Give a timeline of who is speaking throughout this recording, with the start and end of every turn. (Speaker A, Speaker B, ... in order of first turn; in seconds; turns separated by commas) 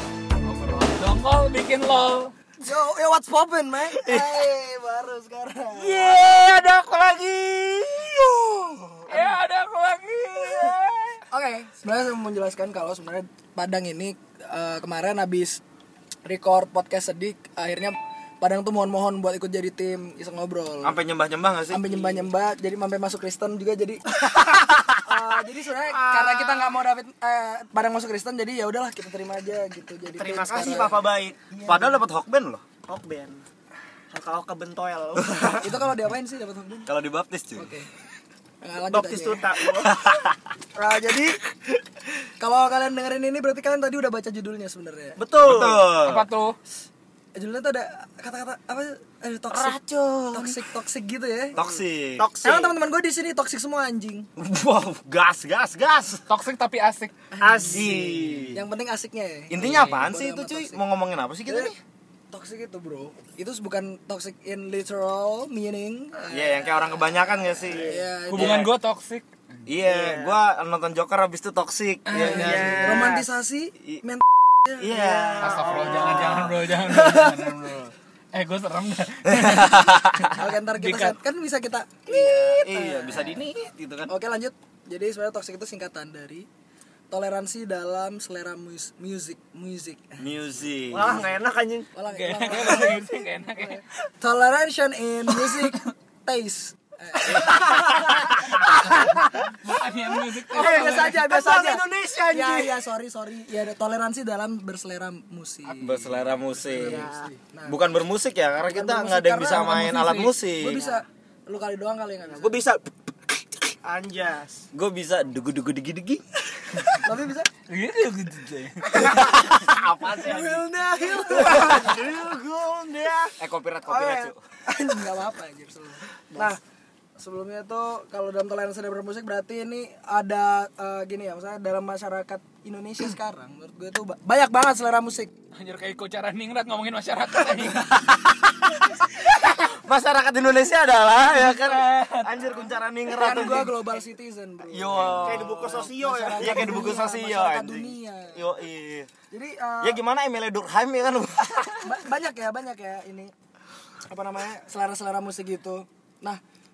Speaker A: 0.4-0.9, Speaker B: 0.8-2.3, Speaker C: 2.6-5.9, Speaker A: 3.9-4.4, Speaker A: 5.8-9.1, Speaker B: 9.1-11.2, Speaker C: 11.3-15.6, Speaker C: 16.2-21.0, Speaker A: 20.8-21.9, Speaker C: 21.7-24.0, Speaker A: 24.3-24.9, Speaker C: 25.0-32.0, Speaker D: 25.9-26.8, Speaker D: 30.2-31.4, Speaker A: 31.6-32.6, Speaker D: 32.9-33.5, Speaker D: 34.1-35.7, Speaker C: 35.6-36.9, Speaker A: 36.9-37.7, Speaker C: 37.6-37.9, Speaker C: 38.6-39.5, Speaker D: 38.9-40.0, Speaker A: 39.9-40.3, Speaker C: 40.8-41.4, Speaker C: 42.4-45.2, Speaker D: 45.2-45.9, Speaker A: 45.4-46.3, Speaker B: 46.0-46.6, Speaker C: 47.4-49.8, Speaker A: 49.5-50.6, Speaker C: 50.3-51.6, Speaker A: 51.5-52.3, Speaker D: 51.6-52.8, Speaker C: 52.4-54.3, Speaker A: 54.4-56.3, Speaker B: 56.3-57.1, Speaker D: 57.4-58.4, Speaker A: 57.4-58.6, Speaker C: 57.5-57.8, Speaker C: 58.5-60.8, Speaker A: 59.5-61.8, Speaker C: 61.5-61.7, Speaker C: 62.3-68.7, Speaker A: 66.3-68.7, Speaker D: 67.7-68.0, Speaker B: 68.3-69.3, Speaker A: 69.7-73.3, Speaker D: 69.8-70.4, Speaker B: 72.1-73.1, Speaker C: 72.1-77.7, Speaker A: 74.8-76.8, Speaker B: 75.4-81.2, Speaker D: 75.7-76.2, Speaker A: 79.3-80.3, Speaker C: 80.3-83.4, Speaker A: 82.5-84.1, Speaker C: 84.1-86.5, Speaker C: 87.1-90.2, Speaker A: 90.2-91.3, Speaker D: 90.9-91.9, Speaker C: 92.0-99.2, Speaker B: 92.1-93.8, Speaker A: 97.3-98.6, Speaker B: 98.9-101.2, Speaker C: 100.5-106.0, Speaker D: 100.5-102.8, Speaker B: 105.7-106.2, Speaker A: 105.8-107.1, Speaker C: 106.7-107.8, Speaker D: 106.8-107.3, Speaker A: 107.7-111.0, Speaker C: 108.6-112.7, Speaker D: 112.3-112.9, Speaker D: 113.8-114.7, Speaker A: 114.7-116.9, Speaker C: 117.0-117.5, Speaker B: 117.7-119.0, Speaker A: 118.9-120.7, Speaker C: 120.2-122.1, Speaker D: 120.2-123.3, Speaker A: 121.3-122.2, Speaker A: 123.3-124.4, Speaker C: 123.9-126.6, Speaker C: 127.2-135.3, Speaker B: 135.5-137.9, Speaker A: 138.0-138.6, Speaker A: 139.4-143.8, Speaker B: 141.2-142.6, Speaker C: 143.1-148.4, Speaker A: 144.7-145.8, Speaker D: 145.2-146.9, Speaker A: 146.3-149.1, Speaker C: 149.3-150.0, Speaker A: 149.8-151.8, Speaker C: 151.8-153.3, Speaker C: 154.1-156.4